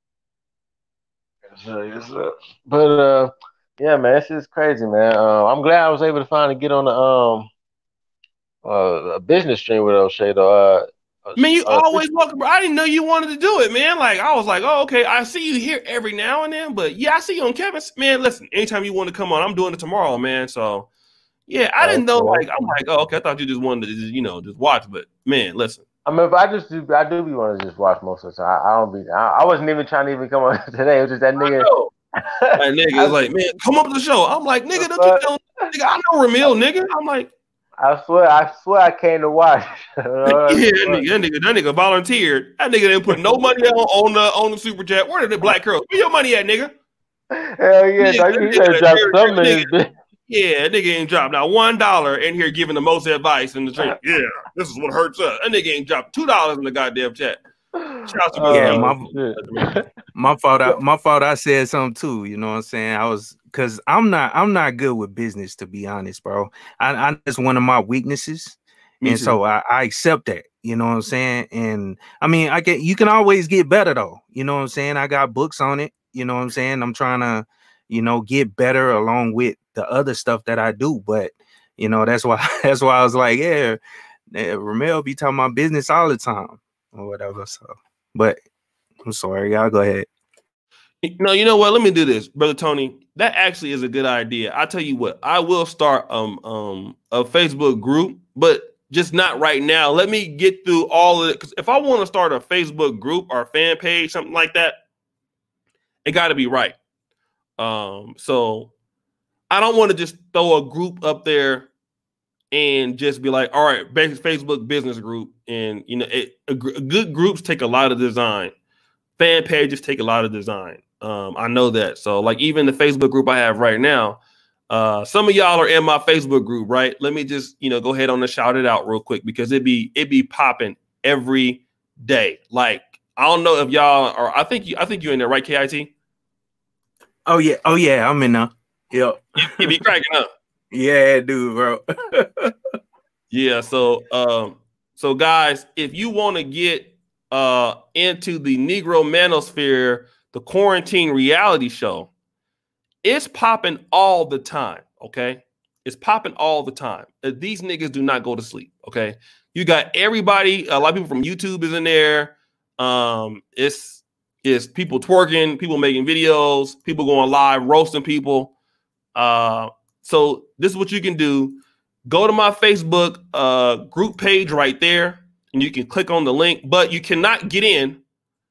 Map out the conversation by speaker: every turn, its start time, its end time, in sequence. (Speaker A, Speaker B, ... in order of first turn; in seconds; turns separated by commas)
Speaker A: 1.5-7.5, Speaker A: 8.6-12.0, Speaker B: 11.4-20.9, Speaker B: 21.5-25.8, Speaker A: 21.8-22.7, Speaker A: 26.1-31.7, Speaker B: 31.4-31.9, Speaker A: 32.2-33.1, Speaker B: 32.6-37.3, Speaker A: 34.8-35.2, Speaker A: 37.8-41.1, Speaker B: 40.3-46.8, Speaker A: 47.3-49.9, Speaker B: 48.0-49.7, Speaker B: 50.3-57.4, Speaker A: 57.8-59.9, Speaker B: 58.0-59.8, Speaker C: 58.5-59.1, Speaker C: 60.1-83.8, Speaker B: 69.0-69.4, Speaker C: 84.3-88.4, Speaker C: 89.0-90.1, Speaker B: 91.0-104.8, Speaker B: 106.0-106.8, Speaker B: 107.6-108.7, Speaker B: 109.5-111.7, Speaker B: 112.5-118.5, Speaker B: 119.2-135.9, Speaker C: 137.3-139.8, Speaker B: 139.4-140.3, Speaker C: 140.7-142.5, Speaker B: 143.3-152.1, Speaker B: 153.0-168.5, Speaker B: 169.2-178.0